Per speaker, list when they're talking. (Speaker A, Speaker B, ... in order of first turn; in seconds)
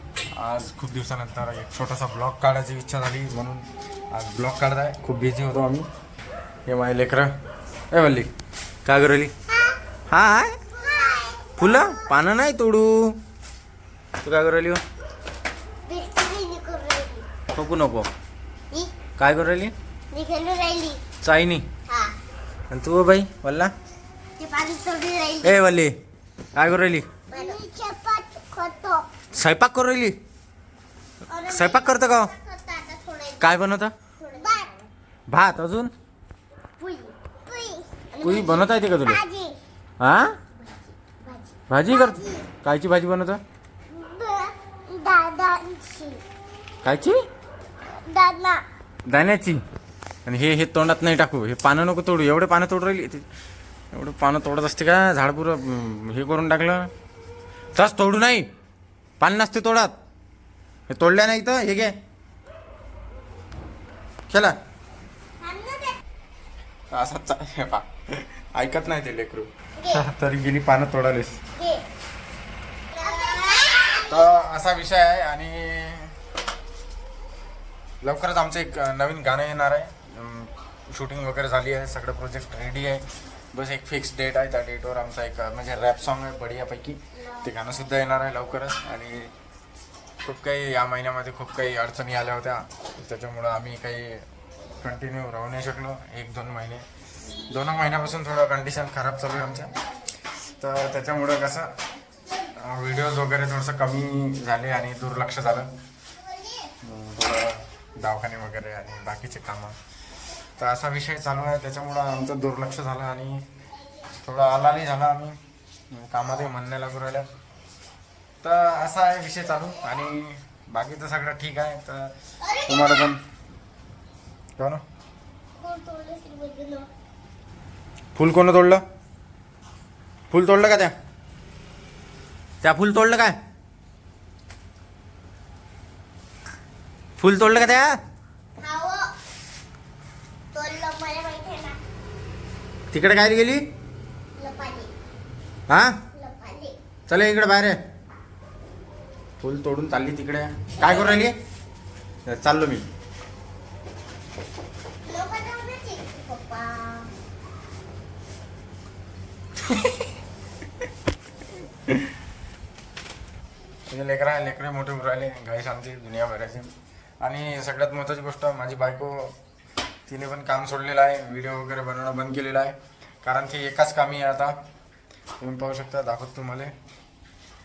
Speaker A: 0.3-5.9, 6.7-7.3, 7.9-8.3, 8.9-9.3, 10.1-10.6, 11.6-13.2, 14.2-14.8, 17.5-18.1, 19.2-19.7, 21.2-21.7, 22.7-23.7, 25.4-25.9, 26.6-27.1, 29.3-30.2, 31.4-32.3, 33.4-33.9, 35.3-35.9, 38.2-39.2, 40.0-40.4, 41.7-43.4, 46.8-47.2, 49.1-49.6, 50.3-53.2, 53.9-56.9, 57.8-58.5, 59.2-59.9, 60.9-61.9, 64.3-64.5, 66.9-71.4, 74.0-76.1, 78.0-89.3, 90.2-94.2, 94.8-96.8, 97.5-99.7, 100.6-101.7, 102.6-105.7, 106.8-109.8, 110.6-113.4, 114.2-115.4, 115.9-117.3, 118.4-122.1, 122.7-123.2, 128.2-128.8, 130.3-130.9, 132.6-133.4, 137.2-138.0, 142.9-143.6, 145.7-146.0, 147.1-147.8, 149.4-151.3, 152.3-152.9, 163.9-166.7, 167.2-169.3, 170.1-174.6, 175.4-176.7
Speaker B: 9.5-9.8, 10.7-11.8, 15.9-17.3, 20.1-21.0, 21.9-22.1, 24.4-25.6, 27.3-29.1, 31.3-33.5, 34.2-34.9, 36.8-39.6, 41.2-42.5, 43.9-46.2, 48.0-48.6, 65.4-66.0, 69.8-70.0, 71.6-71.8, 72.9-74.2, 122.5-122.9, 125.6-126.9, 138.6-139.1, 140.5-141.8, 144.4-144.9, 146.1-146.8, 155.1-157.1